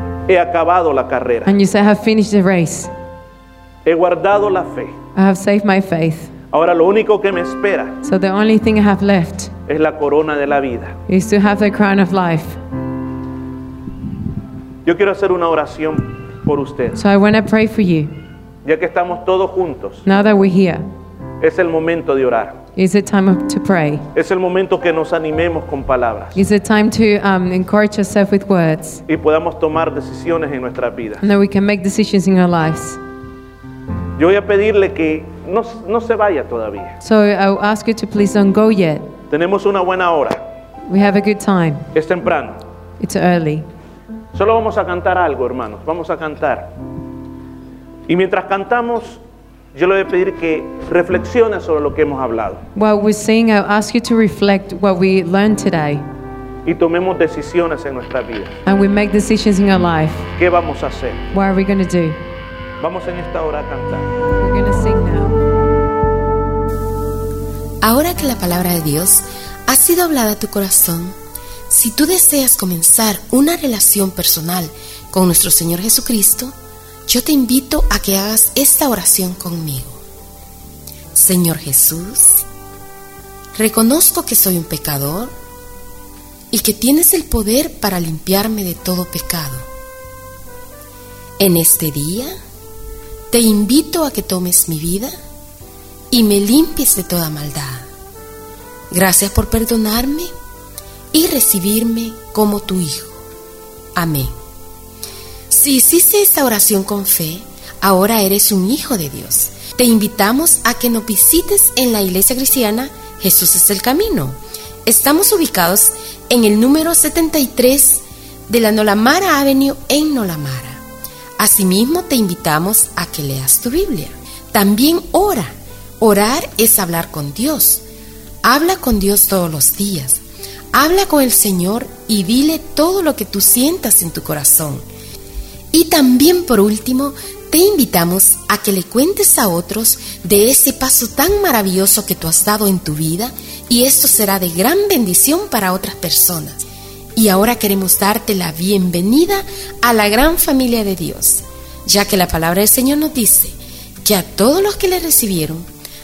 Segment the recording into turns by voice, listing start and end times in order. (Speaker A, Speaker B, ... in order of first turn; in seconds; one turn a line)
Speaker A: 0.3-1.5
Speaker B: 1.4-2.9
Speaker A: 3.9-5.0
Speaker B: 5.2-6.3
Speaker A: 6.5-8.0
Speaker B: 8.0-9.5
Speaker A: 9.7-11.0
Speaker B: 11.1-12.6
Speaker A: 14.8-17.0
Speaker B: 17.0-18.1
Speaker A: 18.6-20.1
Speaker B: 20.1-20.9
Speaker A: 21.4-22.6
Speaker B: 22.8-24.1
Speaker A: 24.1-26.4
Speaker B: 26.4-29.0
Speaker A: 29.1-31.2
Speaker B: 31.2-33.0
Speaker A: 34.2-37.0
Speaker B: 37.0-39.2
Speaker A: 39.3-40.4
Speaker B: 40.9-41.9
Speaker A: 41.9-42.6
Speaker B: 43.0-43.7
Speaker A: 44.3-46.7
Speaker A: 48.1-49.2
Speaker A: 49.7-52.6
Speaker B: 52.8-56.1
Speaker A: 56.6-58.6
Speaker B: 58.7-60.3
Speaker A: 60.4-61.3
Speaker B: 61.3-62.2
Speaker A: 62.8-64.1
Speaker B: 64.4-65.4
Speaker C: 67.8-71.2
Speaker C: 71.7-76.5
Speaker C: 77.1-80.0
Speaker C: 81.1-82.5
Speaker C: 83.5-85.3
Speaker C: 86.5-89.7
Speaker C: 91.4-92.4
Speaker C: 93.3-95.1
Speaker C: 96.1-97.9
Speaker C: 98.9-100.3
Speaker C: 101.1-103.2
Speaker C: 104.0-104.3
Speaker C: 105.5-120.8
Speaker C: 121.4-127.8
Speaker C: 128.4-130.2
Speaker C: 130.7-134.9
Speaker C: 135.7-155.7